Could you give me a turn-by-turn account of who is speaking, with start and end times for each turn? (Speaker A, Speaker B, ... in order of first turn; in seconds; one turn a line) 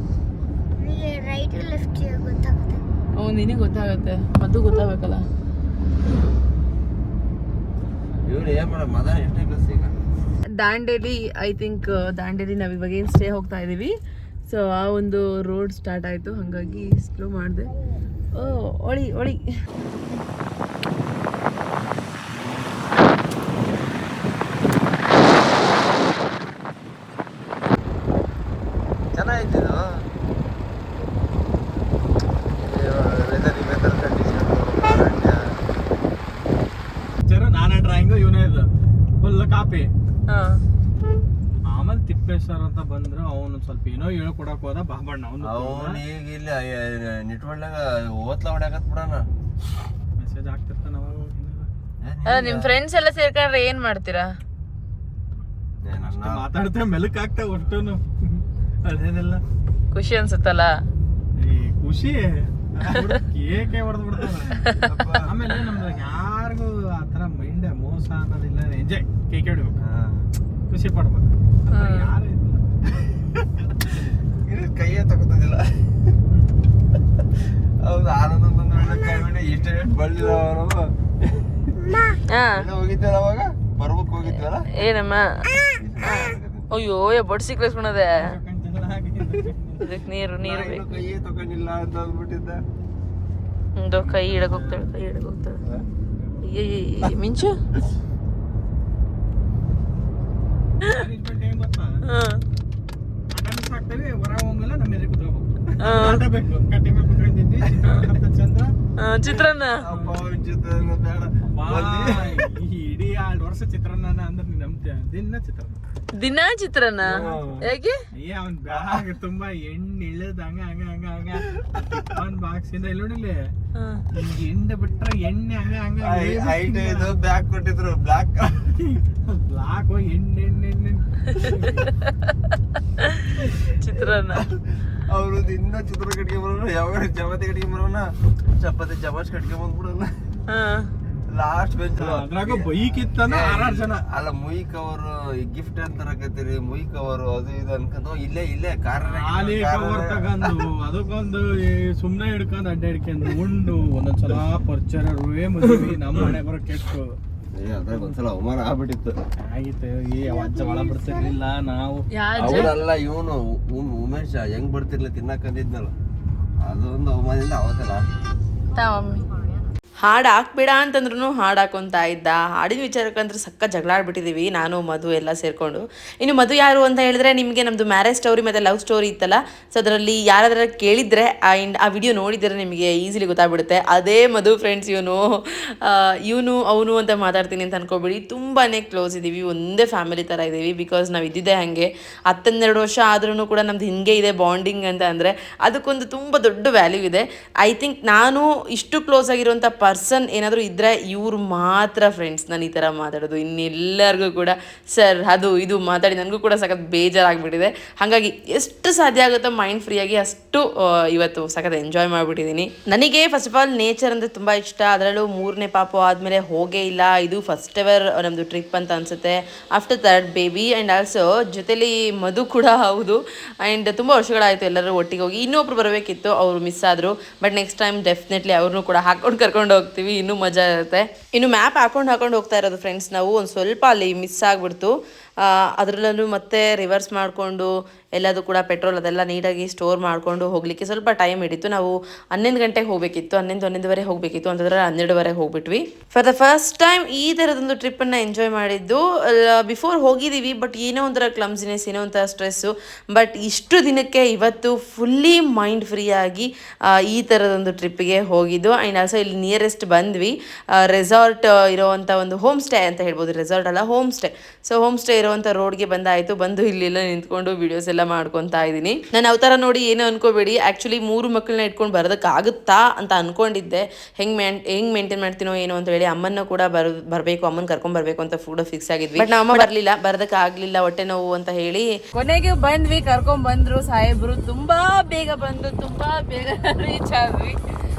Speaker A: 0.8-5.3
Speaker B: 8.3-9.9
Speaker A: 10.5-13.9
Speaker A: 14.5-17.7
Speaker A: 18.3-19.4
Speaker B: 29.1-29.8
Speaker B: 32.6-35.4
Speaker C: 37.3-38.7
Speaker C: 39.2-39.9
Speaker A: 40.3-40.6
Speaker C: 41.7-46.0
Speaker B: 45.4-49.3
Speaker C: 50.2-51.7
Speaker B: 52.0-52.7
Speaker A: 52.3-54.3
Speaker B: 55.9-56.4
Speaker C: 56.0-59.4
Speaker A: 59.9-60.7
Speaker C: 61.4-64.7
Speaker B: 64.8-65.3
Speaker C: 65.2-69.8
Speaker B: 69.8-70.3
Speaker C: 70.7-73.1
Speaker A: 71.7-72.1
Speaker B: 74.5-76.0
Speaker B: 77.4-84.7
Speaker A: 82.2-82.6
Speaker A: 84.3-85.5
Speaker B: 85.8-86.7
Speaker A: 86.0-88.2
Speaker C: 88.2-90.0
Speaker A: 89.8-91.0
Speaker B: 90.4-92.6
Speaker A: 93.8-95.6
Speaker C: 94.0-94.9
Speaker A: 96.4-97.6
Speaker C: 100.9-101.9
Speaker A: 102.1-102.4
Speaker C: 103.3-108.7
Speaker A: 105.8-106.2
Speaker A: 109.0-109.8
Speaker B: 109.8-112.5
Speaker C: 109.9-110.2
Speaker C: 111.6-115.8
Speaker A: 116.2-118.0
Speaker B: 117.0-117.7
Speaker C: 117.1-117.6
Speaker C: 118.2-123.4
Speaker B: 118.7-119.0
Speaker A: 123.8-124.0
Speaker C: 124.1-127.1
Speaker B: 126.0-128.8
Speaker C: 128.8-131.9
Speaker A: 131.4-132.2
Speaker A: 133.8-134.4
Speaker B: 134.0-140.4
Speaker A: 140.5-140.9
Speaker B: 141.3-150.7
Speaker C: 142.0-144.0
Speaker C: 149.0-157.1
Speaker B: 156.1-156.4
Speaker B: 157.6-159.2
Speaker C: 157.9-158.2
Speaker C: 159.4-162.1
Speaker A: 162.2-162.7
Speaker B: 162.4-165.9
Speaker B: 166.6-168.0
Speaker A: 168.7-169.4
Speaker A: 170.0-282.1
Speaker D: 282.1-286.1
Speaker A: 285.1-287.6